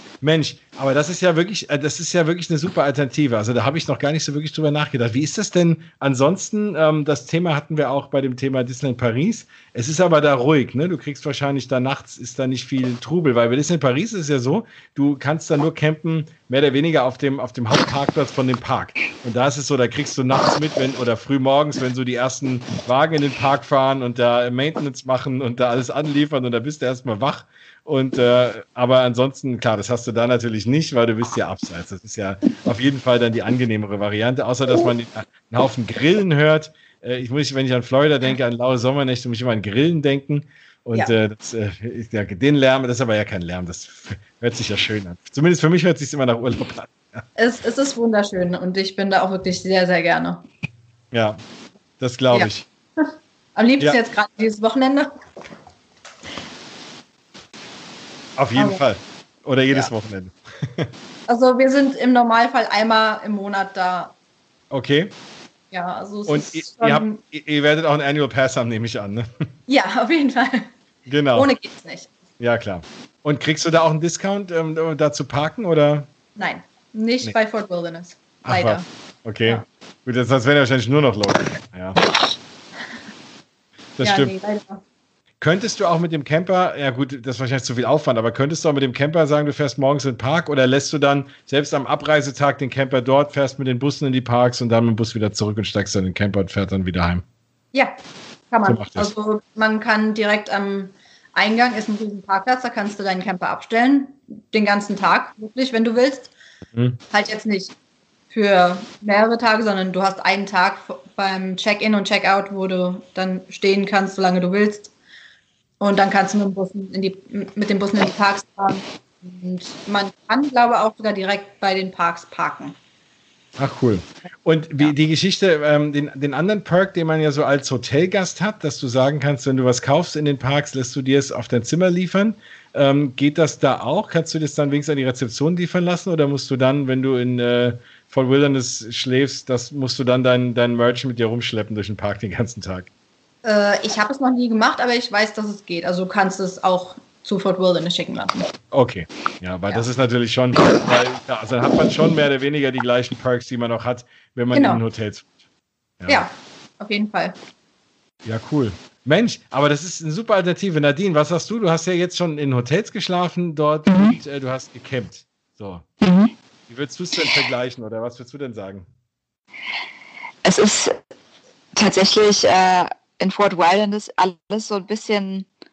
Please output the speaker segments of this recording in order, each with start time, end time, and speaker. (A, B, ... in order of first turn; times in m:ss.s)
0:00.2-0:47.2 A
0:47.4-0:50.4 B
0:51.1-0:51.4 A
0:52.0-0:52.7 A
0:52.3-0:55.1 B
0:58.4-1:00.9 A
0:58.5-0:58.8 B
1:01.3-1:04.1 B
1:04.7-1:05.1 A
1:05.7-1:07.2 B
1:06.3-1:09.4 A
1:09.7-1:10.7 B
1:11.1-1:11.5 A
1:11.3-1:12.1 B
1:12.4-1:16.1 A
1:16.4-1:18.8 B
1:18.4-1:22.0 A
1:24.0-1:24.3 A
1:24.0-1:24.8 B
1:25.4-1:37.2 A
1:38.5-1:46.3 B
1:38.6-1:39.1 A
1:47.1-1:47.7 B
1:48.3-1:54.9 B
1:55.8-2:02.8 B
2:03.6-2:22.9 A
2:23.4-2:28.5 B
2:28.7-2:35.4 A
2:34.5-2:34.8 B
2:36.0-2:36.2 A
2:36.1-2:37.4 B
2:38.2-2:45.8 A
2:46.0-2:46.3 C
2:46.7-2:48.9 A
2:50.4-2:51.0 C
2:51.8-2:55.5 C